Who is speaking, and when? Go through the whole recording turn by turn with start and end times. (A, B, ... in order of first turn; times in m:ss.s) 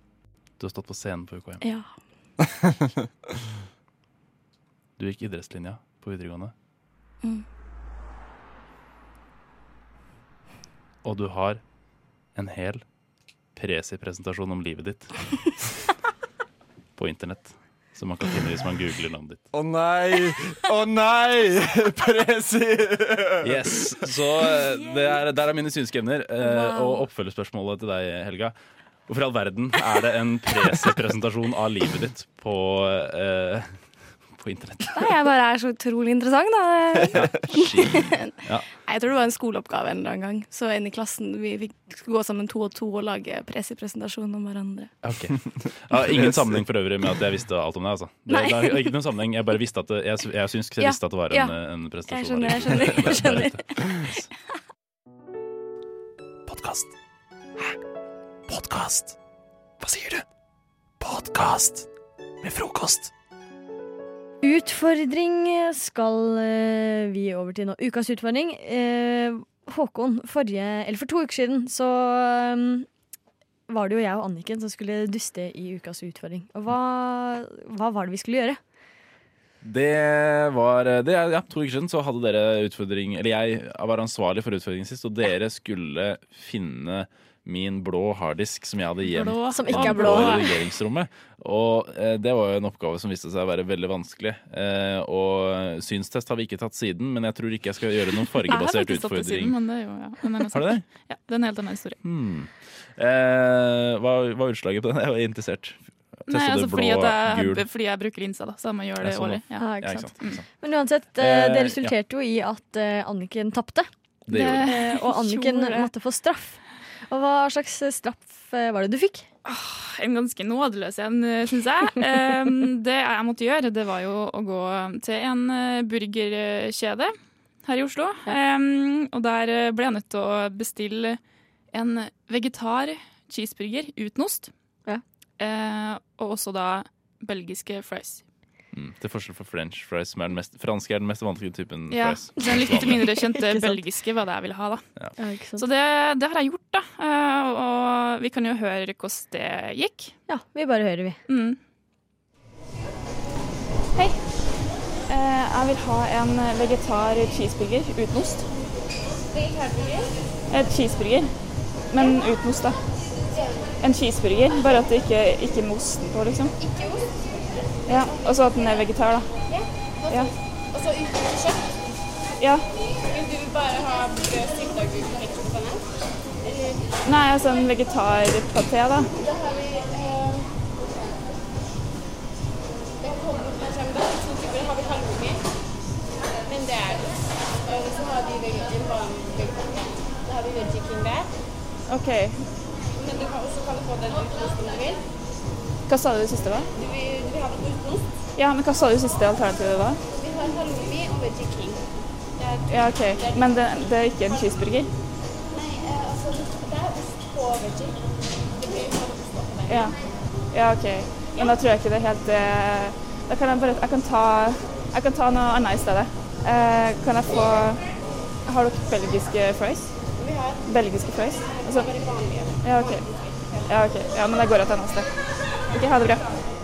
0:00.6-0:01.7 A
0:01.6-0:02.0 B
0:05.0-0:06.5 A
0:11.0-0:11.6 A
0:12.3-0:12.9 A
0:13.5-0:15.6 A
0:17.0-0:19.4 A
0:19.5-0:24.1 C
0:23.4-0:28.6 A
0:24.7-0:25.1 B
0:26.4-0:27.1 B
0:29.1-0:35.1 A
0:35.0-0:44.9 B
0:37.1-0:38.7 A
0:45.0-0:54.3 A
0:48.3-0:49.0 B
0:50.8-0:54.2 B
0:56.5-0:56.9 D
0:58.5-0:59.2 D
0:59.8-1:00.2 D
1:01.0-1:01.9 D
1:02.4-1:03.1 D
1:04.4-1:12.9 E
1:13.7-1:18.6 E
1:19.6-1:39.6 A
1:29.2-1:30.5 F
1:29.5-1:30.5 E
1:38.5-1:42.0 F
1:40.5-1:40.8 A
1:42.0-1:47.6 A
1:46.3-1:50.4 F
1:49.0-1:50.4 A
1:49.6-1:59.3 E
1:51.2-1:52.0 A
1:54.3-1:54.8 A
1:54.3-1:55.9 F
1:59.4-2:14.5 F
2:15.4-2:18.3 F
2:18.7-2:23.1 A
2:21.9-2:24.9 F
2:23.4-2:23.8 E
2:25.2-2:25.7 E
2:25.6-2:30.2 F
2:30.3-2:31.2 E
2:31.3-2:31.6 F
2:35.1-2:38.5 F
2:39.3-2:40.2 G
2:40.5-2:41.3 F
2:41.9-2:42.8 F
2:43.8-2:46.5 F
2:46.6-2:47.2 G
2:47.9-2:48.4 G
2:47.9-2:49.3 F
2:49.4-2:51.9 G
2:52.4-2:52.7 F
2:53.0-2:56.7 G
2:57.0-2:59.1 F
2:59.2-3:00.7 G
3:03.0-3:05.6 G
3:06.4-3:11.3 G
3:11.9-3:12.4 F
3:12.9-3:15.0 G
3:15.9-3:16.7 F
3:16.8-3:18.2 G
3:18.4-3:20.0 F
3:20.1-3:24.6 G
3:22.7-3:24.9 F
3:25.5-3:30.0 G
3:29.7-3:30.0 F
3:30.5-3:37.9 F
3:38.4-3:40.0 F
3:40.2-3:40.7 G
3:40.6-3:41.9 F
3:41.4-3:43.6 G
3:42.6-3:43.1 F
3:43.7-3:45.1 F
3:45.7-3:46.2 F